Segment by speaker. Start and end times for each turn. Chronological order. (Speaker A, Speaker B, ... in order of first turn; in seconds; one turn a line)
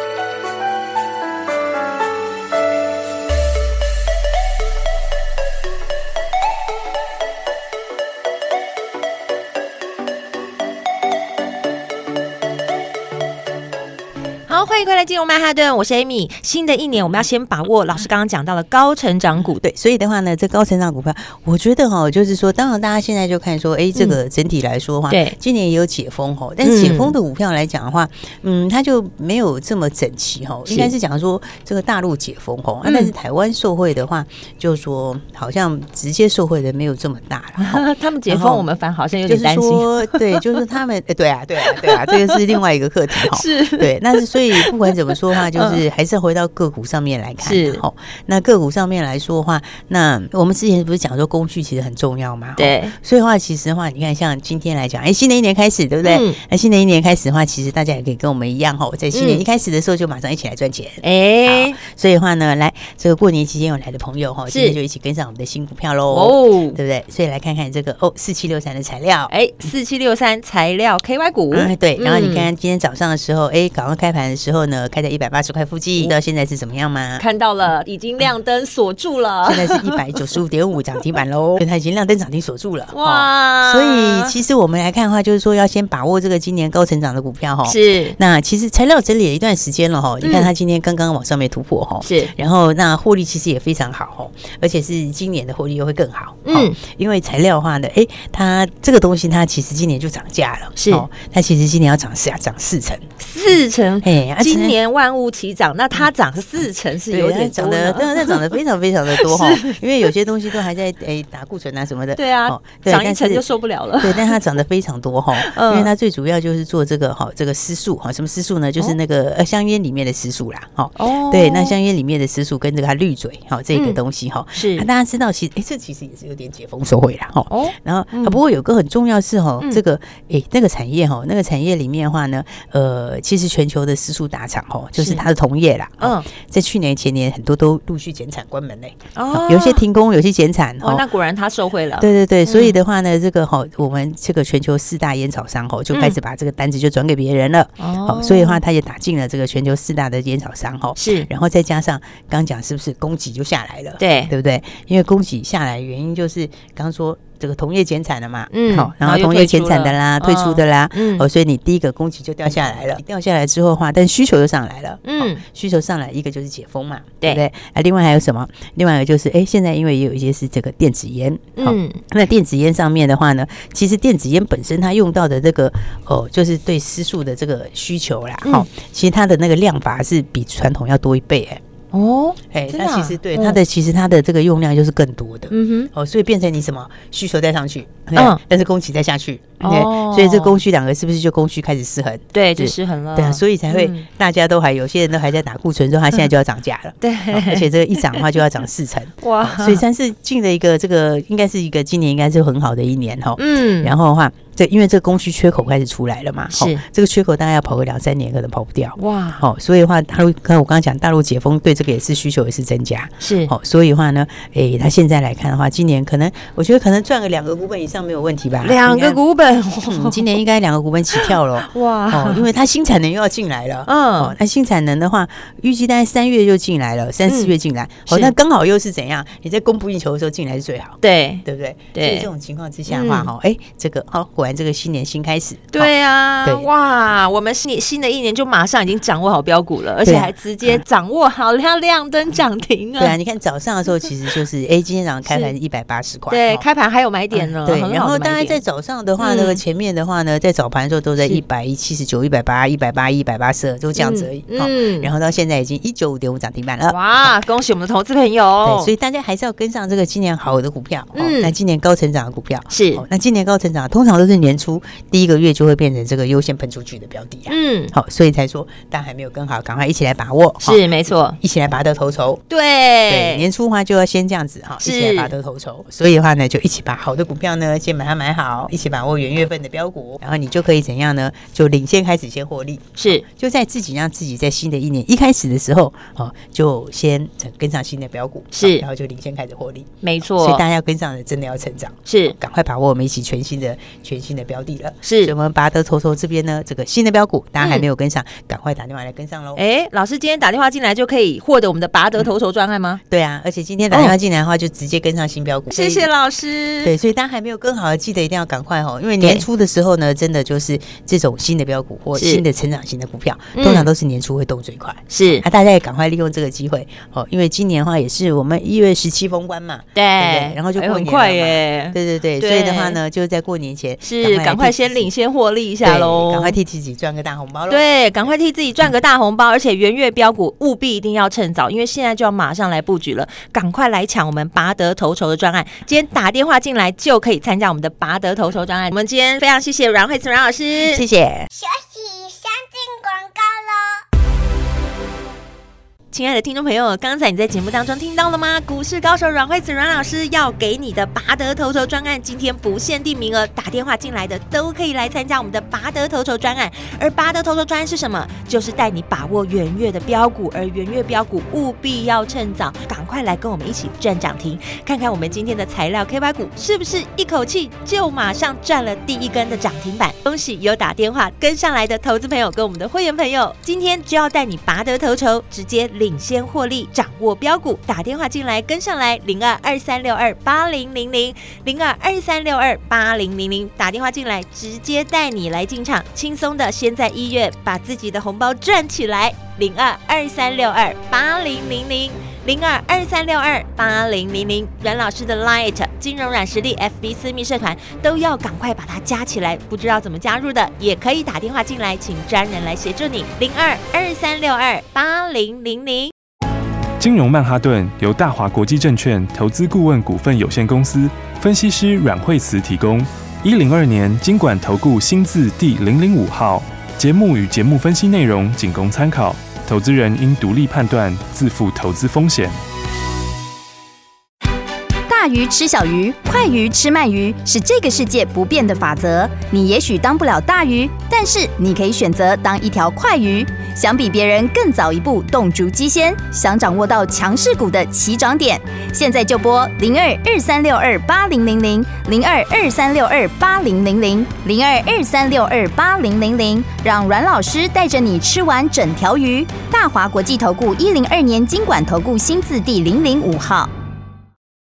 Speaker A: 14.5-19.6
Speaker B: 19.4-38.6
Speaker A: 25.1-25.3
Speaker A: 26.6-27.1
Speaker A: 30.7-30.9
Speaker A: 32.8-33.1
Speaker A: 37.6-40.4
Speaker B: 39.3-69.3
Speaker A: 41.7-42.5
Speaker A: 43.2-44.8
Speaker A: 45.5-45.8
Speaker A: 47.4-47.8
Speaker A: 52.6-52.9
Speaker A: 56.0-56.4
Speaker A: 59.1-59.4
Speaker A: 61.0-61.8
Speaker A: 64.5-64.8
Speaker A: 66.1-66.8
Speaker A: 69.3-72.5
Speaker B: 71.5-77.2
Speaker A: 77.2-80.2
Speaker B: 79.4-103.0
Speaker A: 81.2-81.6
Speaker A: 82.9-84.3
Speaker A: 87.6-88.2
Speaker A: 90.2-90.5
Speaker A: 92.0-92.3
Speaker A: 96.4-96.8
Speaker A: 100.8-101.0
Speaker A: 103.2-108.6
Speaker B: 104.0-104.8
Speaker B: 107.1-113.4
Speaker A: 109.1-109.8
Speaker A: 112.2-114.4
Speaker B: 114.0-141.0
Speaker A: 115.3-115.9
Speaker A: 121.0-121.8
Speaker A: 123.7-124.0
Speaker A: 124.5-124.8
Speaker A: 127.5-128.4
Speaker A: 135.0-135.2
Speaker A: 136.0-136.3
Speaker A: 139.1-139.8
Speaker A: 140.8-142.8
Speaker B: 142.0-181.6
Speaker A: 145.9-146.2
Speaker A: 147.8-148.6
Speaker A: 151.0-151.3
Speaker A: 154.0-154.3
Speaker A: 158.5-161.2
Speaker A: 165.0-165.4
Speaker A: 171.6-172.0
Speaker A: 181.9-183.6
Speaker B: 182.5-219.2
Speaker A: 185.5-185.9
Speaker A: 189.6-190.6
Speaker A: 192.3-194.0
Speaker A: 197.0-198.2
Speaker A: 199.2-199.8
Speaker A: 203.4-203.9
Speaker A: 206.5-206.8
Speaker A: 209.0-209.4
Speaker A: 213.2-213.5
Speaker A: 218.6-220.3
Speaker B: 219.8-235.9
Speaker A: 221.1-222.5
Speaker A: 223.9-224.3
Speaker A: 228.1-228.3
Speaker A: 231.0-231.4
Speaker A: 231.9-232.3
Speaker A: 232.9-233.3
Speaker A: 235.7-243.2
Speaker B: 236.4-236.7
Speaker B: 240.0-240.8
Speaker B: 243.0-246.6
Speaker A: 246.3-248.6
Speaker B: 247.3-257.3
Speaker A: 249.2-249.6
Speaker A: 254.0-255.1
Speaker A: 256.9-258.9
Speaker B: 258.6-272.4
Speaker A: 261.1-261.5
Speaker A: 262.7-263.0
Speaker A: 267.5-267.9
Speaker A: 270.6-271.4
Speaker A: 272.5-273.4
Speaker B: 273.1-299.6
Speaker A: 274.8-275.3
Speaker A: 283.0-283.2
Speaker A: 288.6-288.8
Speaker A: 290.0-290.6
Speaker A: 292.1-292.4
Speaker A: 295.0-295.3
Speaker A: 299.6-303.0
Speaker B: 303.1-306.1
Speaker A: 303.9-304.1
Speaker A: 305.7-306.9
Speaker B: 306.8-325.1
Speaker A: 309.2-309.4
Speaker A: 312.1-312.4
Speaker A: 313.5-313.9
Speaker A: 315.1-315.4
Speaker A: 319.9-323.0
Speaker A: 324.0-326.6
Speaker B: 325.8-327.8
Speaker A: 327.7-341.0
Speaker B: 340.8-341.5
Speaker C: 341.5-344.0
Speaker A: 346.1-406.1
Speaker D: 407.0-422.6
Speaker E: 425.1-453.7